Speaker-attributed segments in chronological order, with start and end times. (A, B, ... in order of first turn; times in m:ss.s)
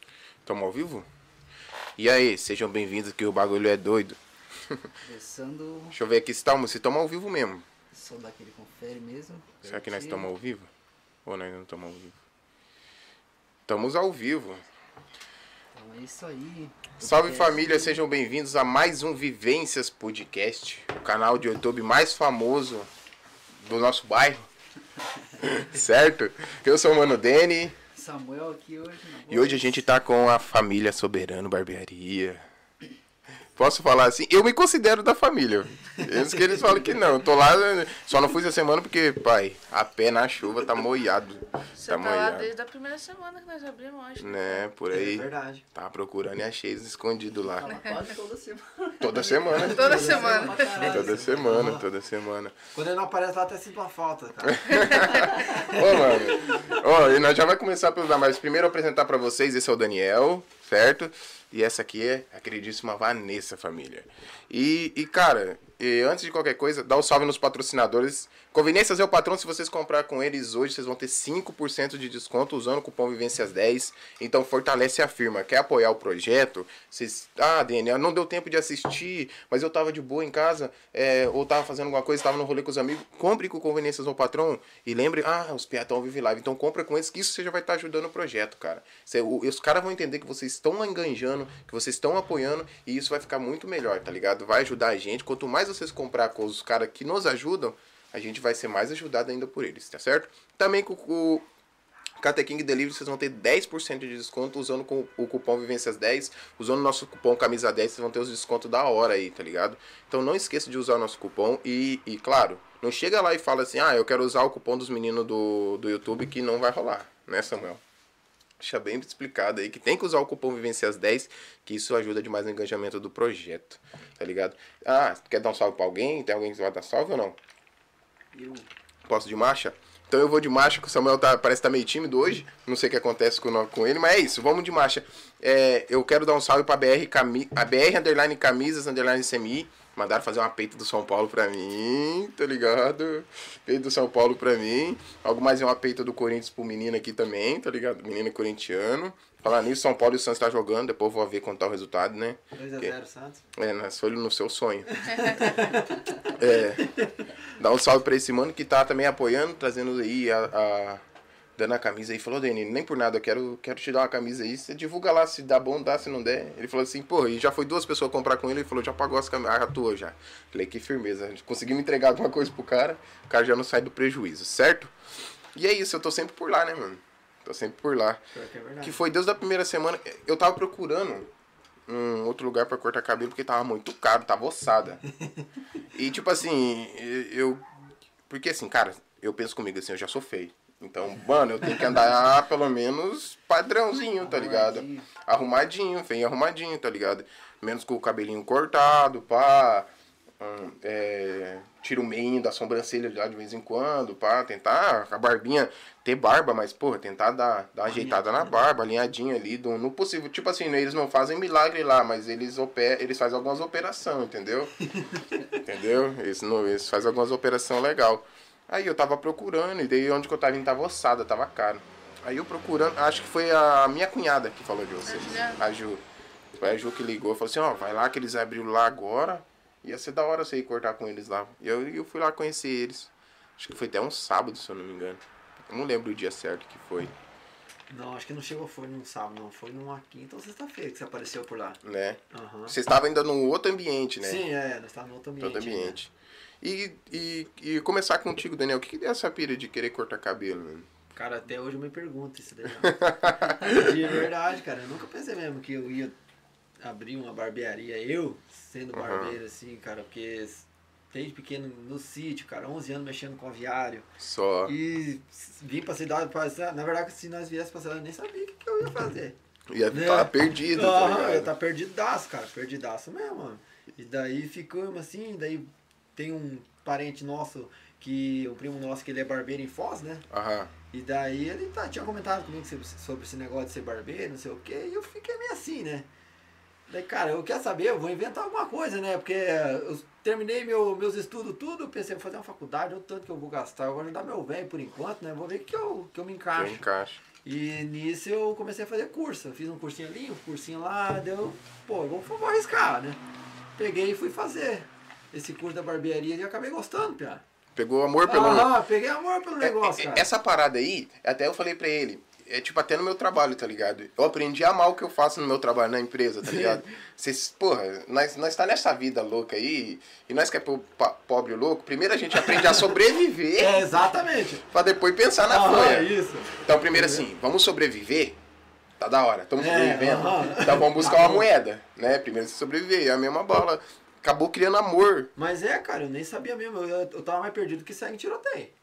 0:00.4-0:01.0 A
0:02.0-0:04.9 A
0:05.0-0:06.0 B
0:05.9-0:07.6 A
0:07.9-0:10.3 B
0:09.6-0:10.7 A
0:11.2-0:12.1 A
0:13.7-0:14.6 A
0:15.7-0:18.0 B
0:17.0-0:22.9 A
0:23.6-0:24.5 A
0:25.4-0:27.8 A
0:27.9-0:29.8 B
0:29.3-0:32.5 A
0:33.5-0:42.5 A
0:36.0-0:36.6 C
0:41.7-0:44.6 D
0:44.2-0:47.8 A
0:44.9-0:45.6 C
0:47.6-0:51.4 B
0:47.6-0:48.1 D
0:49.0-0:50.0 A
0:49.5-0:51.0 D
0:49.6-0:51.8 C
0:50.8-0:52.5 A
0:52.7-0:56.2 C
0:54.4-1:41.4 A
0:54.9-0:55.2 D
1:42.2-1:57.8 A
1:58.6-2:07.4 A
2:08.3-2:08.7 B
2:09.0-2:32.9 A
2:32.5-2:33.4 C
2:33.5-2:35.6 A
2:35.0-2:36.3 C
2:36.2-2:36.9 A
2:36.9-2:37.2 C
2:37.6-2:41.0 A
2:41.6-2:54.9 A
2:55.5-2:58.2 A
2:58.3-2:59.0 C
2:58.8-3:01.3 A
3:01.9-3:05.0 A
3:05.9-3:07.6 A
3:08.3-3:19.9 A
3:14.2-3:15.0 B
3:20.4-3:34.7 A
3:27.9-3:28.6 C
3:34.8-3:35.6 C
3:35.6-3:46.0 A
3:45.0-3:45.6 D
3:46.6-3:57.1 A
3:57.9-4:02.7 C
4:01.8-4:04.4 A
4:04.2-4:06.0 C
4:05.4-4:10.9 A
4:11.1-4:13.0 C
4:12.8-4:14.2 A
4:13.7-4:16.1 C
4:16.8-4:24.1 C
4:18.9-4:19.4 A
4:24.2-4:24.7 A
4:24.6-4:29.4 C
4:29.7-4:31.5 A
4:29.9-4:40.2 C
4:40.3-4:40.7 A
4:40.9-4:46.1 C
4:46.9-4:56.8 C
4:56.5-4:57.2 A
4:57.4-5:03.2 C
5:03.8-5:07.4 C
5:07.8-5:08.8 A
5:08.2-5:10.3 C
5:09.6-5:23.9 A
5:16.4-5:16.8 C
5:22.4-5:22.8 C
5:23.6-5:24.6 C
5:24.7-5:28.4 A
5:25.4-5:27.2 C
5:29.0-5:35.3 A
5:29.6-5:31.5 C
5:35.4-5:38.7 C